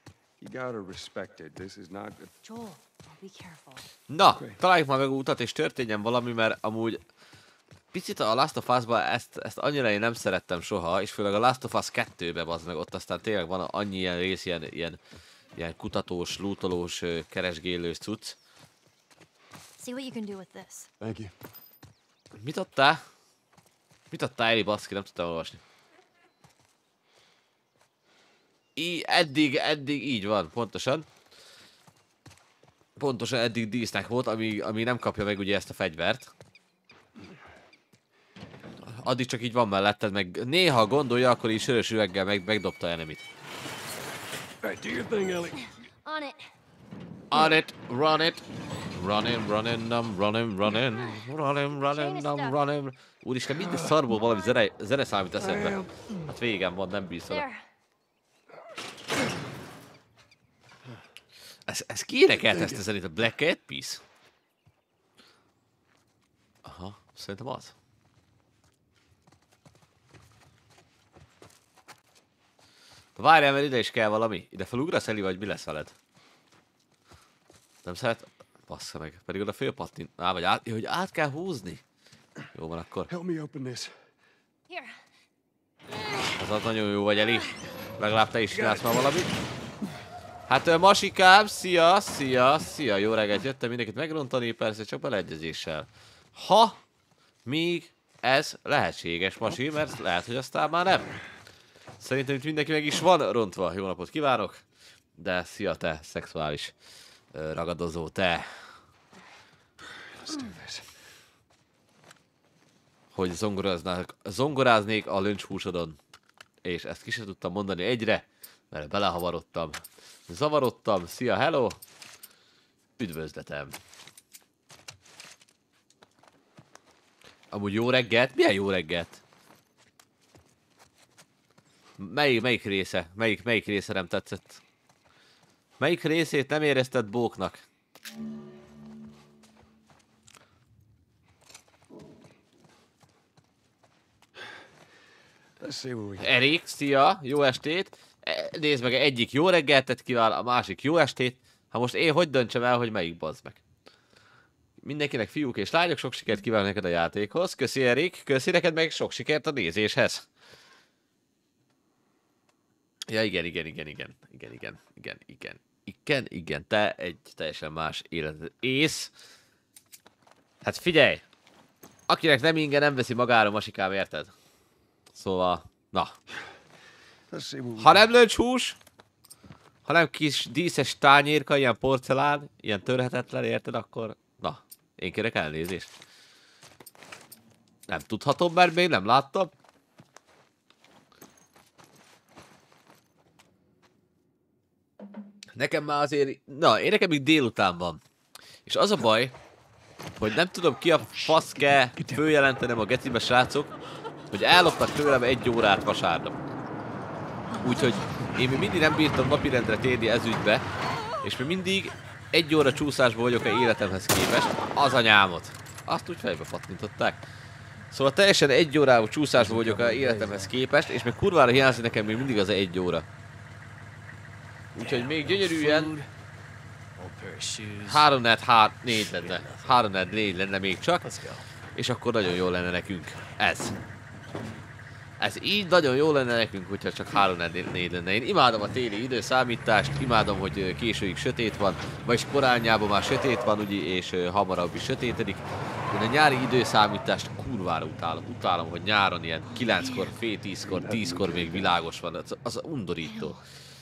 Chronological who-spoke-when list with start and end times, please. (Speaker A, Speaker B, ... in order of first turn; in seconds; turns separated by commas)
Speaker A: 0.4-2.3, Speaker B: 2.4-3.9, Speaker C: 4.1-7.0, Speaker A: 4.3-4.6, Speaker C: 7.9-15.0, Speaker C: 15.6-18.4, Speaker B: 19.8-20.9, Speaker A: 21.0-21.3, Speaker C: 22.4-23.0, Speaker C: 24.1-25.6, Speaker C: 28.8-31.1, Speaker C: 33.0-36.3, Speaker C: 38.9-43.2, Speaker A: 44.6-45.6, Speaker B: 46.0-46.4, Speaker C: 47.3-57.4, Speaker B: 51.9-52.6, Speaker B: 57.3-57.6, Speaker C: 61.7-64.0, Speaker C: 66.6-67.7, Speaker C: 73.2-75.9, Speaker C: 77.8-81.8, Speaker C: 82.5-83.1, Speaker A: 83.1-83.9, Speaker B: 84.7-85.0, Speaker C: 86.4-89.3, Speaker C: 90.5-96.8, Speaker C: 97.5-101.1, Speaker C: 102.0-104.6, Speaker C: 105.2-106.7, Speaker C: 107.3-108.5, Speaker A: 110.2-110.9, Speaker C: 113.1-116.0, Speaker C: 116.7-121.8, Speaker C: 123.0-123.8, Speaker C: 127.5-129.2, Speaker C: 132.0-134.6, Speaker C: 135.8-137.7, Speaker A: 145.6-146.3, Speaker C: 146.2-153.6, Speaker C: 154.8-160.3, Speaker C: 163.1-169.1, Speaker C: 170.6-171.2, Speaker C: 172.1-174.3, Speaker C: 175.2-176.2, Speaker A: 177.3-178.1, Speaker C: 177.8-178.8, Speaker C: 179.9-185.9, Speaker C: 187.9-189.5, Speaker C: 195.6-198.0, Speaker C: 198.7-199.3, Speaker C: 200.2-203.7, Speaker C: 204.3-206.4, Speaker C: 207.6-210.7, Speaker C: 211.2-217.2, Speaker C: 217.9-223.1, Speaker D: 219.3-220.5, Speaker C: 224.8-225.9, Speaker D: 224.8-226.1, Speaker D: 227.0-228.1, Speaker C: 227.8-231.1, Speaker D: 229.0-229.8, Speaker D: 231.0-231.4, Speaker C: 231.8-233.8, Speaker C: 235.2-253.4, Speaker A: 250.7-251.8, Speaker B: 253.1-253.4